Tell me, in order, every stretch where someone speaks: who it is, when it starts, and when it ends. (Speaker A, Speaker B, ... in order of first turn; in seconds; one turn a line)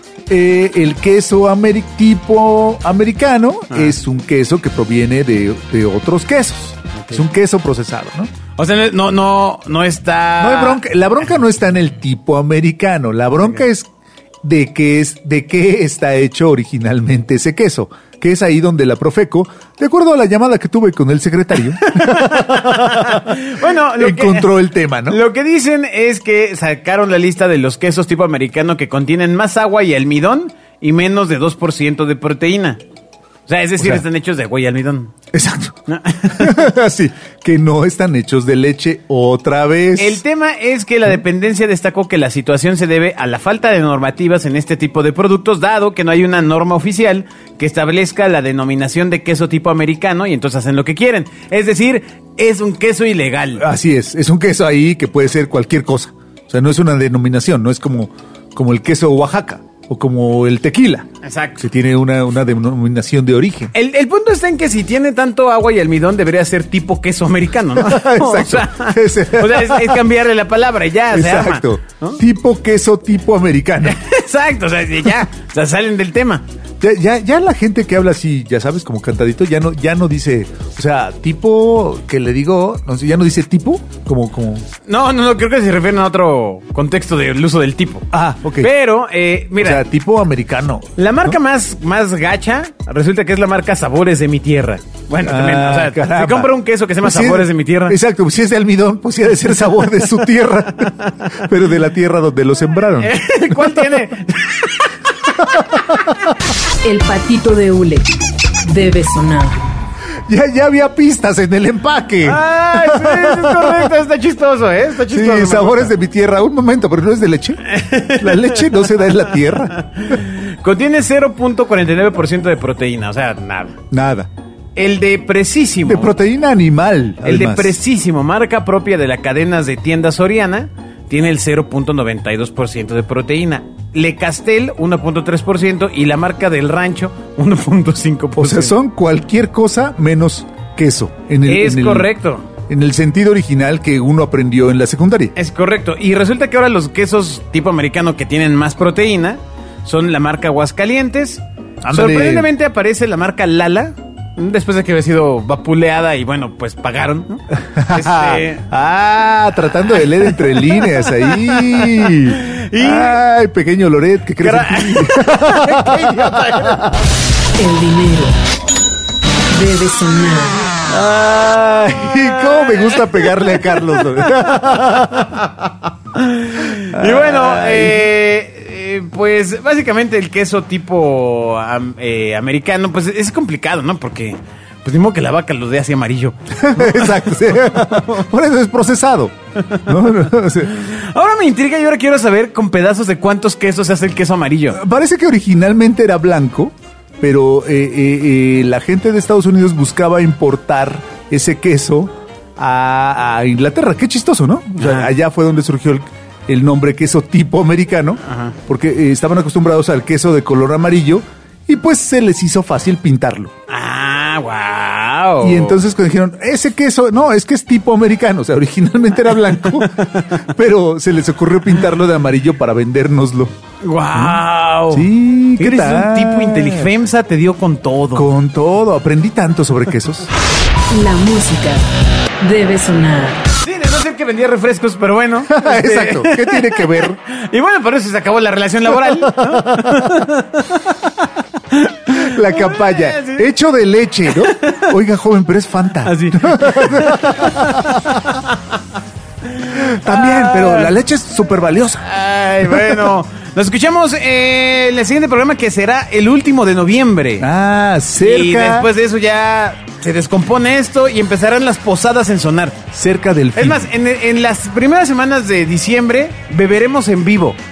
Speaker A: 0.3-8.3
Speaker B: 3.7-4.0
Speaker B: 7.0-7.2
Speaker B: 8.6-10.8
Speaker A: 10.4-13.9
Speaker A: 14.4-23.4
Speaker B: 21.8-32.8
Speaker A: 24.0-25.2
Speaker B: 33.5-35.1
Speaker A: 33.8-34.0
Speaker A: 35.3-35.8
Speaker B: 35.9-36.6
Speaker A: 36.3-40.2
Speaker B: 40.0-53.6
Speaker A: 53.6-61.1
Speaker B: 61.2-61.7
Speaker A: 61.6-63.7
Speaker B: 63.7-72.2
Speaker A: 67.7-70.0
Speaker A: 71.1-74.0
Speaker B: 73.8-76.5
Speaker A: 76.8-84.7
Speaker B: 84.9-88.1
Speaker A: 88.1-88.7
Speaker B: 88.6-89.8
Speaker A: 89.6-91.4
Speaker B: 91.0-98.0
Speaker A: 95.2-96.5
Speaker A: 97.0-104.0
Speaker B: 103.0-105.8
Speaker A: 105.4-106.2
Speaker C: 106.8-108.1
Speaker C: 108.6-109.7
Speaker A: 110.3-113.9
Speaker B: 112.2-115.9
Speaker A: 115.1-120.2
Speaker B: 117.7-119.2
Speaker B: 119.7-123.8
Speaker A: 123.9-124.3
Speaker B: 124.8-126.1
Speaker A: 125.8-127.8
Speaker B: 127.2-138.8
Speaker A: 138.4-142.1
Speaker B: 141.5-142.5
Speaker A: 142.7-145.3
Speaker B: 145.4-158.7
Speaker A: 151.9-152.5
Speaker A: 157.6-166.8
Speaker B: 160.0-163.2
Speaker B: 164.4-167.1
Speaker C: 167.6-168.4
Speaker C: 169.5-170.8
Speaker B: 170.9-188.0
Speaker A: 171.1-175.4
Speaker A: 176.9-178.1
Speaker A: 186.6-189.3
Speaker B: 189.6-190.1
Speaker A: 189.9-190.7
Speaker B: 190.7-194.8
Speaker A: 194.7-213.5
Speaker B: 204.8-205.1
Speaker B: 208.3-208.6
Speaker B: 213.7-215.8
Speaker A: 215.4-223.5
Speaker B: 219.6-220.4
Speaker B: 223.8-228.3
Speaker A: 224.1-226.9
Speaker A: 228.1-230.3
Speaker C: 230.9-231.8
Speaker C: 232.4-233.4
Speaker B: 233.6-240.9
Speaker A: 235.5-237.2
Speaker A: 239.1-240.2
Speaker B: 241.7-243.5
Speaker A: 242.1-248.3
Speaker B: 244.3-244.9
Speaker B: 246.0-248.6
Speaker B: 249.4-251.0
Speaker A: 249.7-252.1
Speaker B: 252.0-257.5
Speaker A: 252.7-253.1
Speaker A: 257.4-258.9
Speaker B: 258.2-262.9
Speaker A: 262.9-263.9
Speaker B: 263.6-267.6